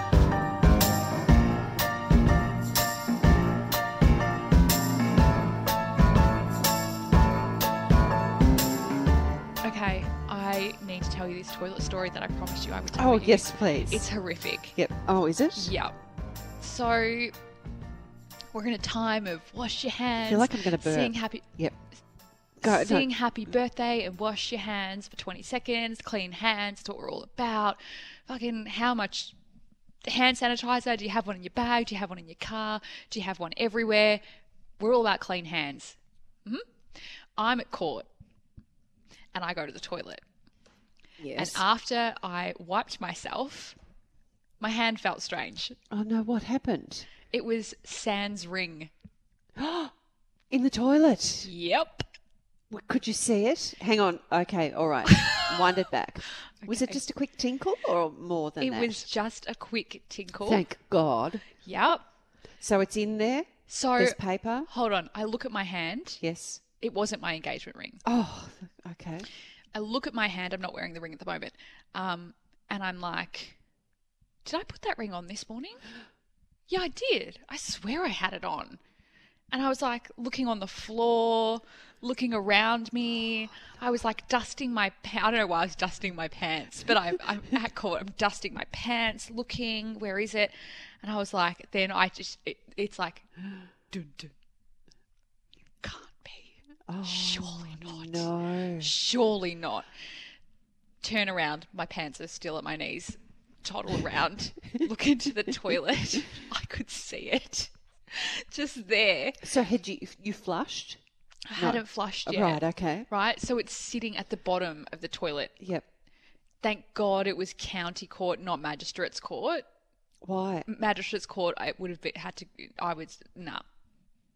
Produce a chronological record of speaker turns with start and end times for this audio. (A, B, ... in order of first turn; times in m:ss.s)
0:09.6-0:14.8 A
0:13.0-0:14.1 B
0:14.8-0:15.7 B
0:15.6-0:15.9 A
0:16.6-0:17.4 A
0:18.5-0:21.4 A
0:20.2-0:21.8 B
0:22.6-0:23.1 B
0:22.6-0:29.3 A
0:30.0-0:34.2 A
0:34.8-0:36.7 A
0:37.4-0:38.1 A
0:39.3-0:40.2 A
0:41.2-0:41.6 B
0:41.4-0:43.8 A
0:44.6-0:45.8 A
0:45.9-0:47.1 B
0:47.3-0:48.9 A
0:49.6-0:49.9 B
0:50.5-0:51.5 B
0:51.4-0:52.1 A
0:52.7-0:59.1 B
0:55.1-0:55.8 A
0:56.6-0:57.0 A
0:58.6-1:00.6 A
1:00.4-1:01.5 B
1:01.6-1:02.0 A
1:02.6-1:04.7 B
1:03.7-1:06.2 A
1:06.2-1:06.6 B
1:06.8-1:08.0 A
1:08.0-1:09.3 B
1:09.7-1:13.6 A
1:14.4-1:15.8 A
1:16.7-1:18.8 A
1:19.5-1:33.3 A
1:33.9-1:34.3 A
1:35.8-1:38.3 A
1:36.9-1:38.9 B
1:38.8-1:39.9 A
1:41.0-1:49.4 A
1:45.5-1:46.2 B
1:49.4-1:51.0 B
1:51.5-1:55.6 A
1:51.6-1:53.1 B
1:55.6-1:55.8 B
1:56.6-1:59.6 A
2:00.2-2:00.7 B
2:00.7-2:03.6 A